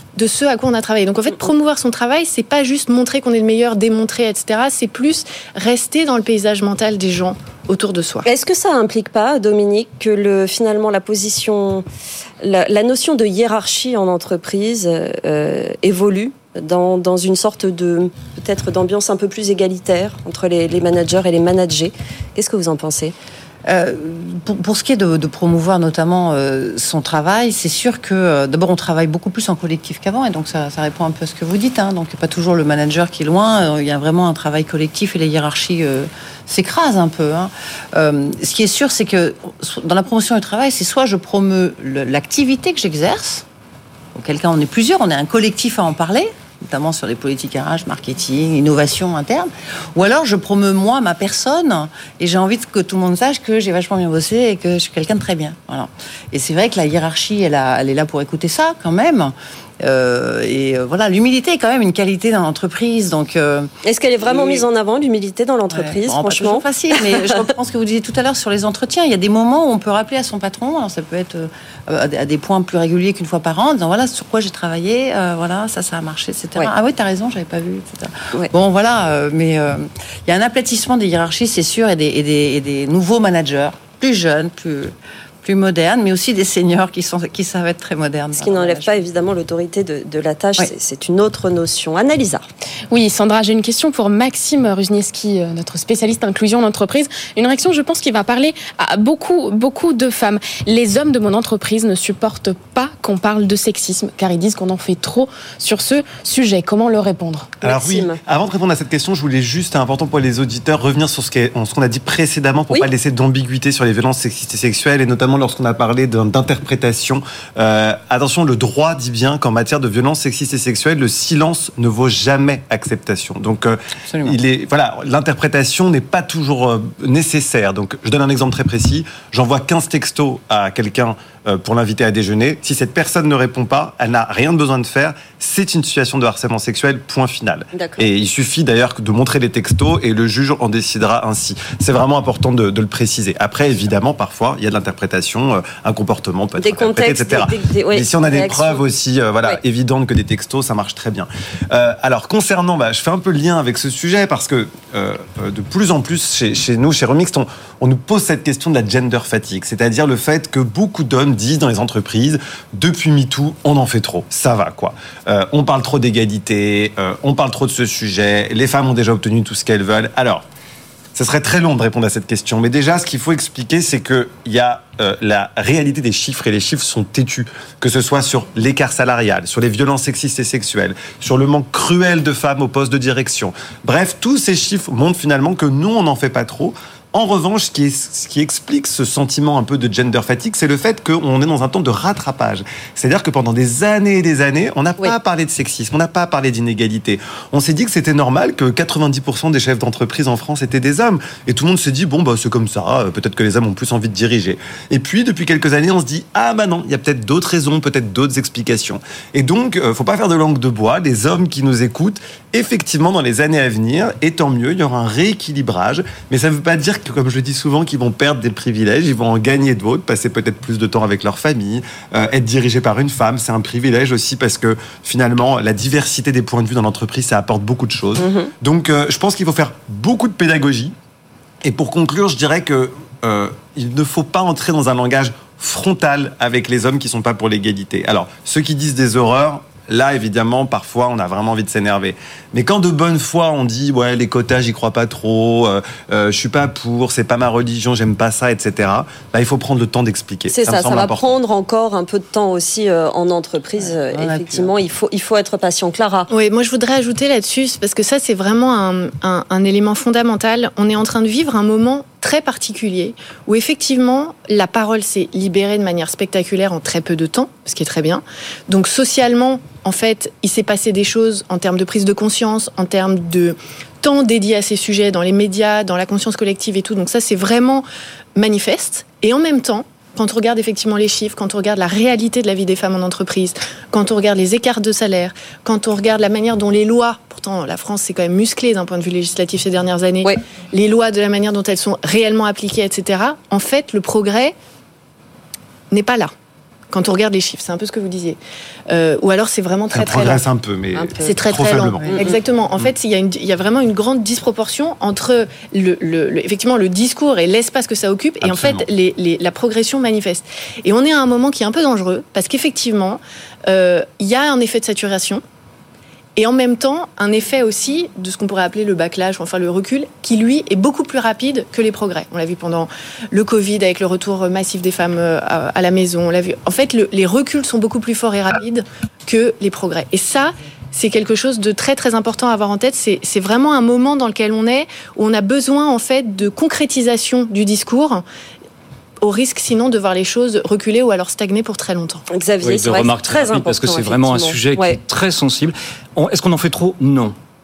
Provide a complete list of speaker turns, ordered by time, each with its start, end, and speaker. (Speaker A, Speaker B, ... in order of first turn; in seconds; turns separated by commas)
Speaker A: 0.1-8.2, Speaker B: 8.2-11.8, Speaker B: 12.4-23.1, Speaker C: 23.6-43.4, Speaker C: 44.1-63.7, Speaker B: 63.8-67.3, Speaker C: 64.2-64.6, Speaker C: 65.7-89.0, Speaker B: 88.3-92.5, Speaker D: 92.9-107.6, Speaker B: 107.6-108.2, Speaker E: 107.6-170.4, Speaker C: 124.1-124.4, Speaker B: 137.7-138.0, Speaker B: 146.6-148.8, Speaker E: 171.1-230.9, Speaker B: 228.2-228.5, Speaker E: 231.6-251.3, Speaker B: 250.5-256.3, Speaker C: 253.8-254.7, Speaker A: 256.3-294.5, Speaker A: 295.9-296.3, Speaker A: 296.9-300.4, Speaker E: 299.9-302.1, Speaker B: 301.0-301.3, Speaker A: 301.2-315.4, Speaker B: 302.0-302.4, Speaker E: 308.4-308.9, Speaker A: 316.4-338.2, Speaker A: 339.2-342.2, Speaker B: 342.3-345.0, Speaker F: 342.6-347.3